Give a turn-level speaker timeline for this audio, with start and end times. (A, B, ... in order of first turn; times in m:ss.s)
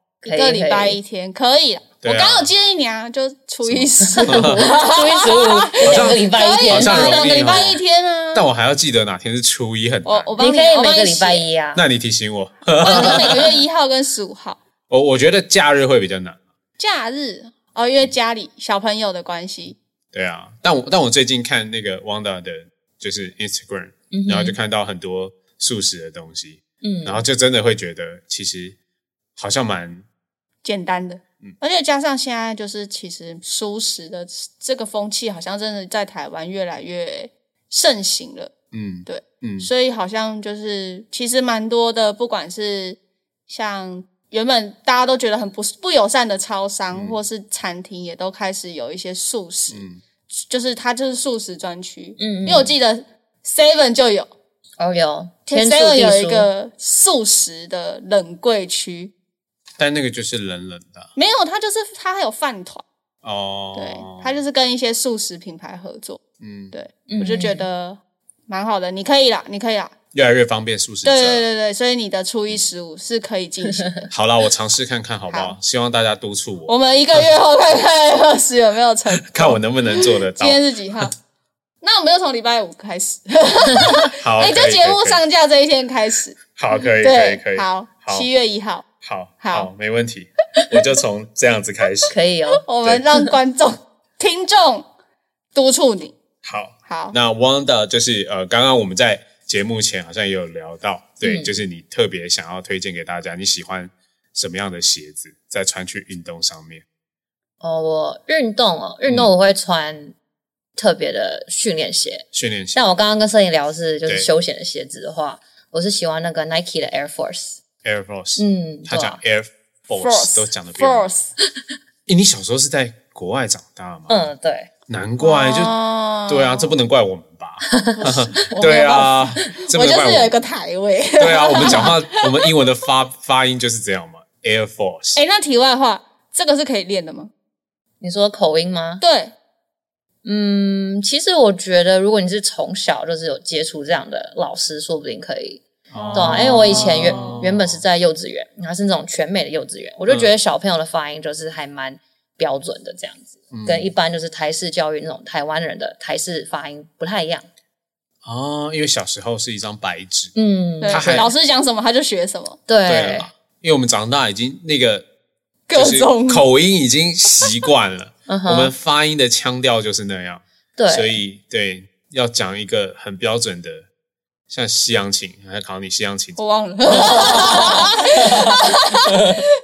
0:00.2-0:01.0 A
0:00.2-0:08.5 B
0:02.0-0:02.5 C
0:03.6-0:04.7 C
0:04.0-0:07.7 A
0:05.8-0:07.8 C
0:08.3-0:10.3 C
0:10.0-0:11.5 B
0:10.4-0:11.8 A
0:11.7-0:13.5 C
0:12.8-0:14.6 B
0:12.8-0:13.3 A
0:14.9-0:16.4 C
0:16.8-0:19.8 B
0:20.1-0:28.8 C
0:24.1-0:24.6 A
0:26.8-0:27.2 A
0:29.4-0:30.0 C
0:30.6-0:38.5 B
0:38.7-0:39.7 C
0:39.0-0:43.0 B
0:43.5-0:54.3 B
0:46.9-0:47.2 C
0:49.7-0:50.0 C
0:52.2-0:52.7 A
0:54.8-0:56.5 A
0:55.5-0:59.1 B
0:59.8-1:01.1 C
1:01.1-1:02.8 B
1:03.2-1:04.4 C
1:03.7-1:09.9 B
1:06.4-1:06.7 C
1:07.1-1:07.6 A
1:10.1-1:11.5 C
1:11.0-1:14.0 B
1:13.7-1:14.0 A
1:14.1-1:17.2 C
1:15.3-1:15.6 B
1:16.7-1:21.1 B
1:19.2-1:21.1 C
1:21.8-1:26.4 B
1:24.1-1:25.2 C
1:26.5-1:28.3 C
1:27.0-1:28.9 B
1:29.0-1:32.1 C
1:29.4-1:29.7 B
1:32.1-1:32.6 A
1:32.6-1:34.8 B
1:35.5-1:36.1 B
1:36.4-1:46.8 C
1:36.8-1:37.2 B
1:41.2-1:41.5 A
1:47.6-1:50.1 A
1:50.8-1:57.6 A
1:52.3-1:52.8 C
1:57.8-2:01.1 C
1:58.4-1:59.2 A
2:00.0-2:01.3 B
2:02.1-2:04.1 C
2:04.1-2:04.7 A
2:04.9-2:05.7 C
2:05.2-2:06.7 B
2:06.3-2:10.3 C
2:07.7-2:08.0 A
2:08.0-2:12.5 B
2:11.2-2:15.2 C
2:15.1-2:17.3 B
2:18.0-2:19.0 A
2:19.0-2:19.3 B
2:20.2-2:37.4 A
2:25.9-2:27.8 C
2:25.9-2:27.4 B
2:33.5-2:33.9 C
2:38.2-2:40.3 C
2:40.3-2:41.3 A
2:40.8-2:42.6 B
2:40.9-2:41.3 C
2:42.7-2:43.3 A
2:42.8-2:45.1 C
2:45.7-2:46.4 B
2:45.7-2:53.9 C
2:48.3-2:48.7 A
2:50.8-2:51.2 A
2:54.5-2:56.4 C
2:56.4-2:59.4 B
2:56.9-2:59.4 C